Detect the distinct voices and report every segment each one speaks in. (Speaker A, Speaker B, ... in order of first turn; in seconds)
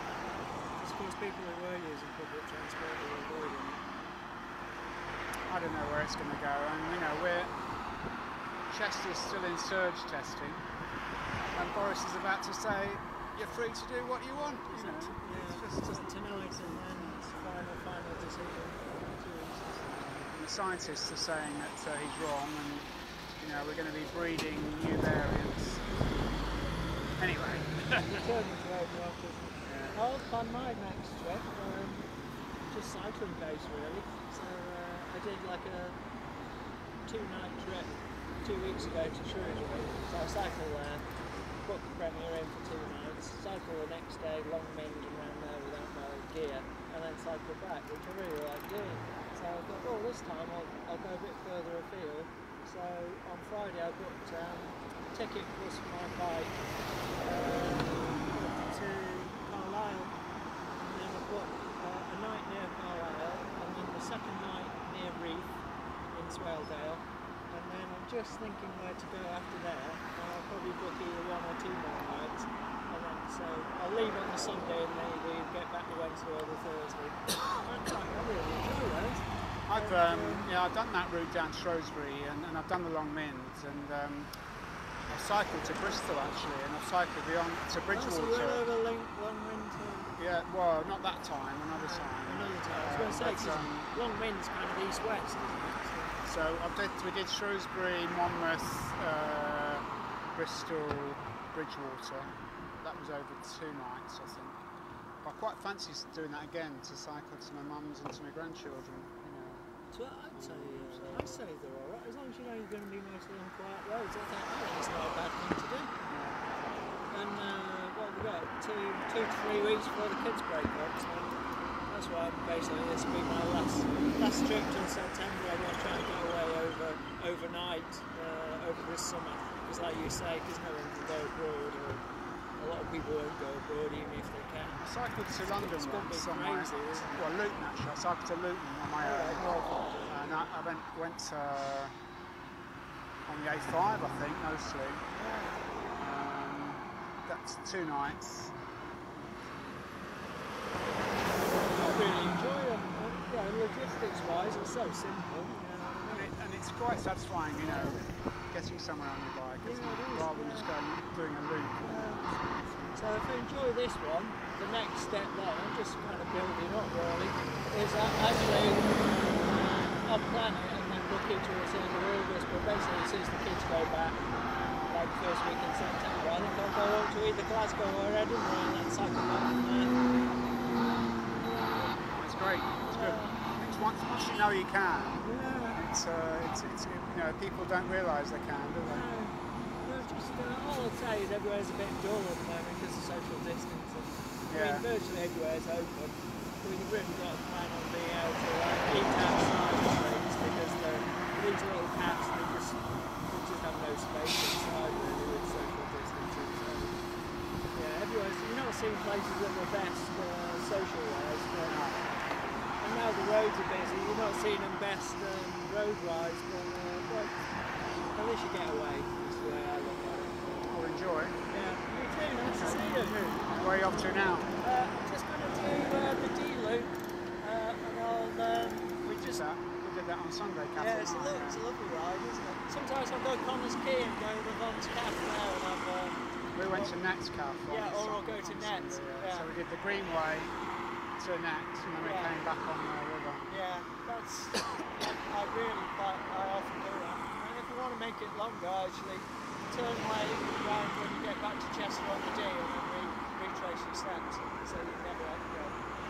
Speaker A: 0.8-3.9, 14.3-20.4, 28.1-32.1, 32.7-36.0, 37.1-41.1, 41.6-56.6, 57.2-60.1, 60.8-65.5, 66.1-80.5, 87.9-90.2, 91.7-96.2, 109.9-115.9, 117.1-121.4, 121.9-132.1, 132.6-134.8, 135.3-137.3, 139.0-140.5, 145.2-145.6, 151.7-156.3, 157.7-158.0, 159.6-160.7, 161.8-162.3, 162.9-174.2, 174.9-180.0, 181.3-181.9, 182.8-183.4, 185.2-185.8, 188.8-207.0, 207.7-211.9, 212.8-217.4, 218.1-220.7, 221.5-229.4, 230.7-236.2, 236.7-237.0, 237.7-239.5, 242.0-242.4, 243.5-255.8
Speaker B: 5.5-7.5, 8.7-10.7, 11.5-17.5, 20.3-25.9, 27.2-28.2, 29.7-30.0, 79.7-84.3, 85.1-88.6, 90.2-93.9, 96.2-104.6, 105.2-109.7, 110.3-111.4, 116.1-116.4, 134.8-139.5, 140.1-141.9, 143.3-145.1, 146.0-148.6, 149.1-149.8, 156.1-163.3, 182.0-189.1, 194.5-194.9, 211.6-212.0, 220.7-221.4, 222.4-224.5, 229.0-231.7, 236.6-240.6, 241.2-243.5